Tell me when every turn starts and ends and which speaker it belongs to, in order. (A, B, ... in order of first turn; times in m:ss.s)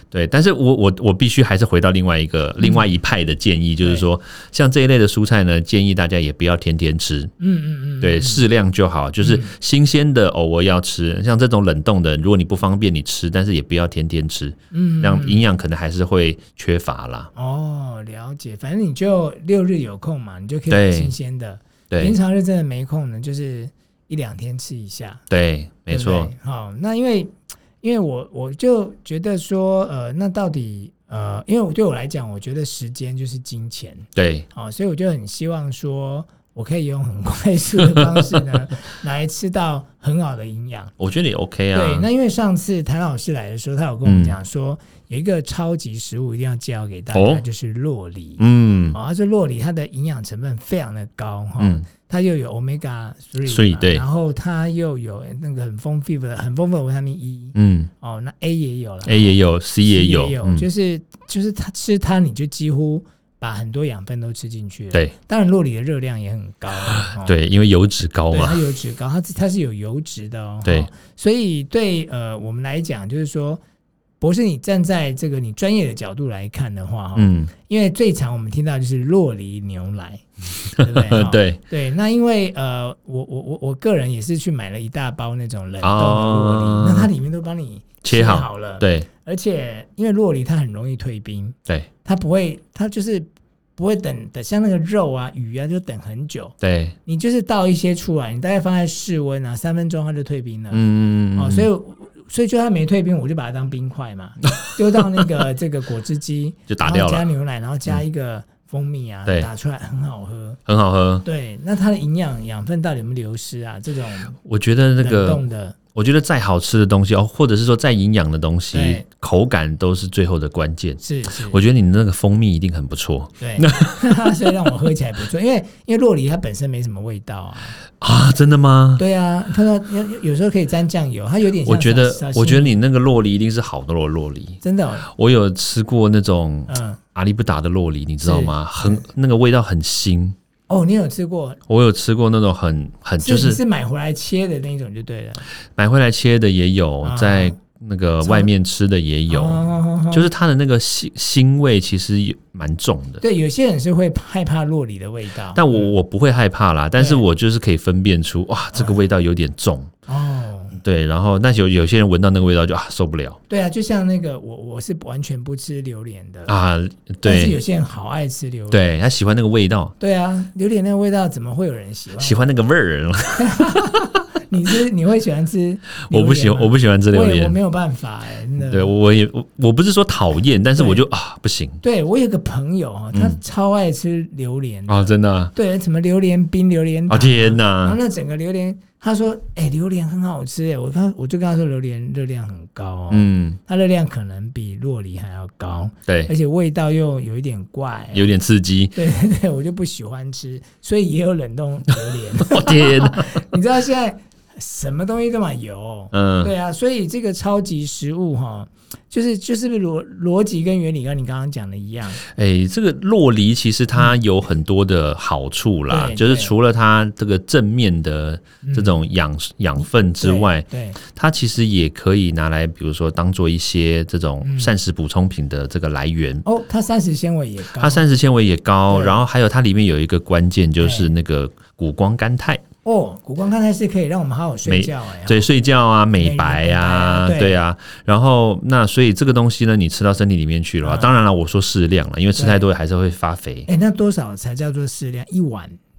0:00.1-0:07.3 A
0:02.6-0:02.9 B
0:07.4-0:08.4 B
0:08.0-0:17.3 A
0:09.2-0:09.5 B
0:14.7-0:15.4 B
0:17.3-0:25.2 B
0:20.7-0:21.1 A
0:21.9-0:22.2 A
0:25.3-0:26.3 A
0:25.9-0:40.9 B
0:34.2-0:34.4 A
0:41.0-0:42.1 A
0:41.7-1:07.4 B
0:44.0-0:44.4 A
0:47.1-0:47.4 A
0:48.4-0:49.0 A
0:51.6-0:51.8 A
0:53.4-0:54.0 A
0:57.6-0:57.9 A
0:59.0-1:00.7 A
1:07.2-1:08.6 A
1:08.3-1:13.6 B
1:14.2-1:36.5 B
1:17.2-1:17.5 A
1:20.9-1:21.6 A
1:25.8-1:27.1 A
1:28.0-1:29.1 A
1:36.6-1:36.9 A
1:37.0-1:40.8 B
1:40.7-1:41.7 A
1:41.3-1:50.6 B
1:46.7-1:47.3 A
1:50.6-1:51.2 A
1:51.2-1:54.4 B
1:54.4-1:55.4 A
1:55.0-1:55.8 B
1:55.9-2:04.1 A
1:58.7-1:59.0 B
2:01.0-2:01.6 B
2:03.4-2:07.8 B
2:08.0-2:09.0 A
2:09.0-2:12.8 B
2:11.6-2:20.4 A
2:14.6-2:15.0 B
2:16.7-2:17.0 B
2:18.2-2:19.0 B
2:20.7-2:21.6 B
2:21.7-2:23.6 A
2:23.2-2:25.4 B
2:25.8-2:33.2 A
2:27.0-2:27.5 B
2:28.2-2:28.5 B
2:29.3-2:30.3 B
2:33.2-2:35.9 B
2:35.5-2:39.9 A
2:36.9-2:37.2 B
2:38.7-2:39.0 B
2:40.1-2:40.8 B
2:40.8-2:43.4 A
2:43.5-2:46.5 B
2:46.5-2:47.6 A
2:47.2-2:48.9 B
2:48.7-2:49.9 A
2:50.0-2:52.4 B
2:52.2-2:53.9 A
2:53.4-2:58.9 B
2:56.1-2:57.6 A
2:58.6-3:01.8 A
3:00.8-3:01.0 B
3:01.8-3:18.3 B
3:03.1-3:03.4 A
3:04.9-3:05.5 A
3:07.1-3:08.0 A
3:13.1-3:13.6 A
3:18.1-3:19.0 A
3:18.9-3:32.2 B
3:22.4-3:23.4 A
3:26.1-3:26.5 A
3:32.2-3:46.4 A
3:35.9-3:36.5 B
3:38.6-3:39.0 B
3:40.2-3:41.0 B
3:44.4-3:44.7 B
3:46.4-3:48.1 B
3:47.8-3:52.6 A
3:48.9-3:49.2 B
3:50.8-3:51.1 B
3:52.8-3:55.5 B
3:54.6-4:03.7 A
3:56.2-3:57.6 B
4:00.8-4:01.1 B
4:02.3-4:02.6 B
4:03.7-4:05.8 B